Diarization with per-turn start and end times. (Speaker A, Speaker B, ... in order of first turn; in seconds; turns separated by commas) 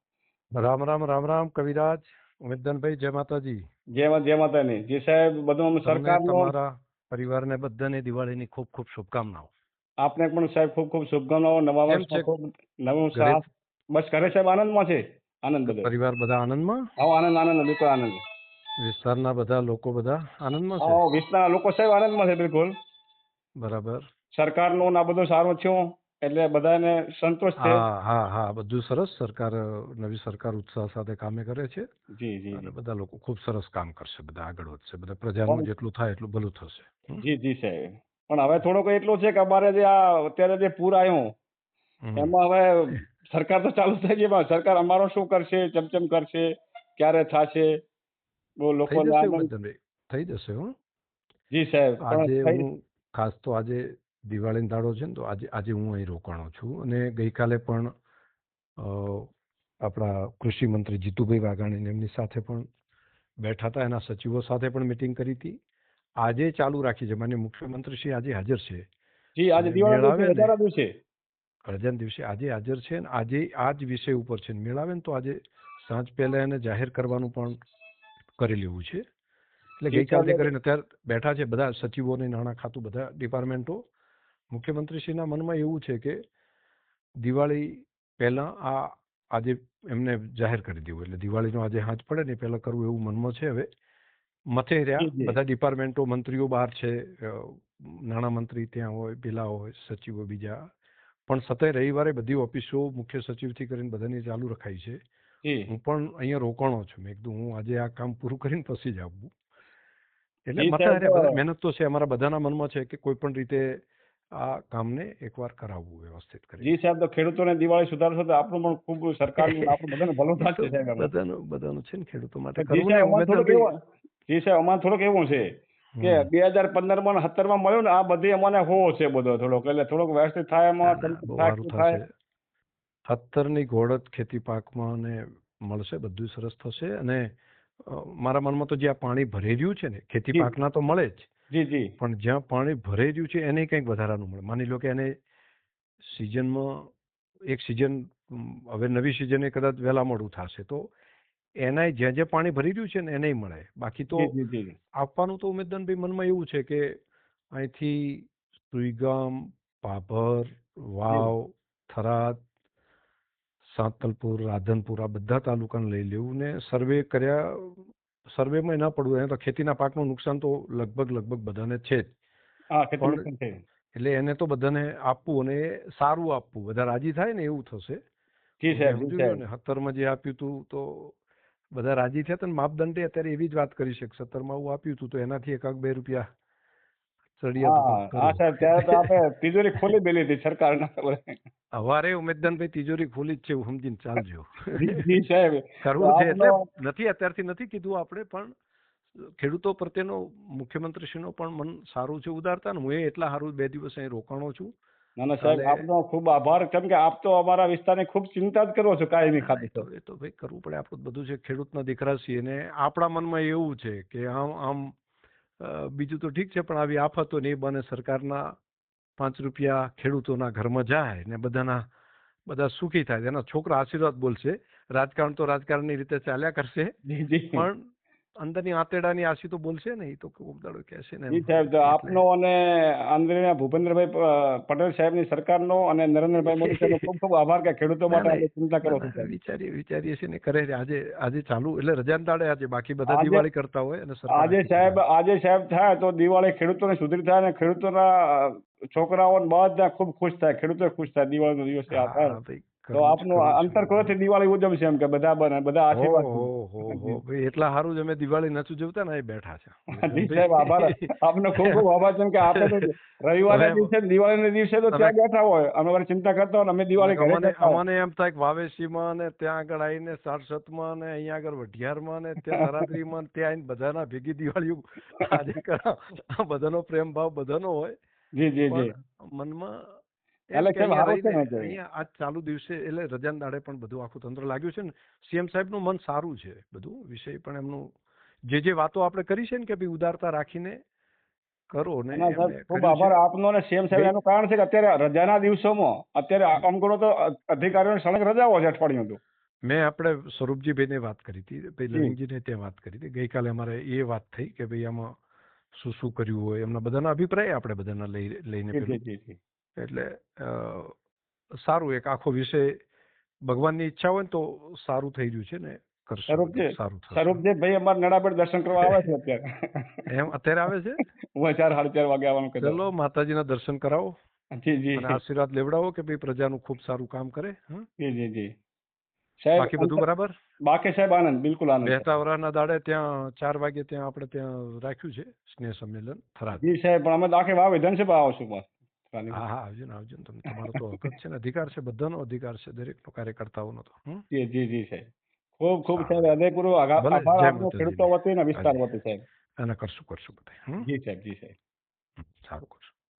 Speaker A: 0.6-3.6, Speaker B: 4.0-6.5, Speaker A: 5.8-9.5, Speaker B: 10.0-15.9, Speaker A: 11.9-12.3, Speaker A: 13.1-13.4, Speaker A: 15.7-16.8, Speaker B: 17.0-18.2, Speaker A: 18.8-21.0, Speaker B: 20.8-22.7, Speaker A: 23.6-24.0, Speaker B: 24.3-27.8, Speaker A: 27.6-31.9, Speaker B: 32.1-32.7, Speaker A: 32.5-37.2, Speaker B: 37.2-41.3, Speaker A: 42.0-42.3, Speaker B: 42.1-47.7, Speaker B: 48.6-49.5, Speaker A: 48.9-50.7, Speaker B: 51.5-52.6, Speaker A: 52.0-57.9, Speaker A: 58.8-59.3, Speaker A: 59.8-62.6, Speaker A: 63.4-65.5, Speaker A: 66.2-68.8, Speaker B: 69.4-70.9, Speaker A: 69.6-70.5, Speaker A: 71.7-77.5, Speaker A: 78.4-79.0, Speaker A: 79.8-83.8, Speaker B: 79.9-80.5, Speaker A: 84.5-86.2, Speaker A: 87.2-93.7, Speaker A: 94.5-100.6, Speaker B: 95.0-95.3, Speaker A: 101.3-105.0, Speaker B: 105.4-105.7, Speaker A: 105.7-109.3, Speaker A: 110.5-116.8, Speaker B: 110.6-111.3, Speaker B: 116.6-121.1, Speaker A: 119.4-123.7, Speaker B: 122.6-123.7, Speaker B: 124.3-125.5, Speaker A: 125.9-126.3, Speaker B: 126.0-132.0, Speaker A: 130.8-132.1, Speaker A: 133.1-141.3, Speaker B: 141.5-141.9, Speaker A: 142.0-145.1, Speaker A: 146.1-146.9, Speaker A: 147.5-150.9, Speaker A: 151.6-154.3, Speaker B: 154.1-154.8, Speaker A: 155.0-156.9, Speaker A: 157.5-162.4, Speaker A: 163.7-172.1, Speaker B: 172.7-173.6, Speaker A: 173.0-173.3, Speaker A: 173.9-178.0, Speaker B: 178.6-179.4, Speaker A: 178.7-181.2, Speaker A: 181.7-186.2, Speaker A: 187.4-189.2, Speaker B: 187.6-191.4, Speaker A: 191.7-195.0, Speaker B: 194.8-196.6, Speaker A: 195.8-198.5, Speaker A: 199.2-204.7, Speaker B: 205.2-209.9, Speaker A: 205.4-205.8, Speaker A: 209.4-214.9, Speaker A: 215.6-218.6, Speaker A: 219.2-221.8, Speaker A: 222.5-226.9, Speaker B: 227.1-227.7, Speaker A: 227.5-227.8, Speaker A: 228.4-232.2, Speaker B: 231.3-239.3, Speaker A: 236.5-237.1, Speaker A: 238.1-245.0, Speaker B: 243.1-243.4, Speaker B: 244.3-252.4, Speaker A: 251.9-254.1, Speaker B: 252.9-257.2, Speaker A: 255.9-261.1, Speaker B: 260.0-267.8, Speaker A: 262.5-262.8, Speaker A: 263.5-263.9, Speaker A: 267.0-278.0, Speaker B: 278.4-278.9, Speaker A: 278.7-287.9, Speaker B: 280.5-281.7, Speaker A: 288.5-290.8, Speaker A: 291.7-293.2, Speaker B: 292.1-299.2, Speaker A: 299.6-305.1, Speaker A: 305.8-309.0, Speaker B: 308.7-309.4, Speaker A: 309.8-310.9, Speaker A: 311.6-312.8, Speaker A: 313.4-317.4, Speaker B: 316.3-320.0, Speaker A: 320.1-321.0, Speaker B: 321.4-322.8, Speaker A: 322.6-324.1, Speaker B: 324.6-325.2, Speaker A: 324.9-327.9, Speaker B: 328.0-328.5, Speaker B: 329.4-330.0, Speaker A: 329.6-330.3, Speaker B: 330.6-332.2, Speaker A: 331.8-336.7, Speaker B: 336.6-339.4, Speaker A: 339.3-344.2, Speaker B: 344.3-349.2, Speaker A: 345.9-346.3, Speaker A: 347.0-348.8, Speaker A: 349.6-350.9, Speaker B: 350.8-351.6, Speaker A: 352.2-352.9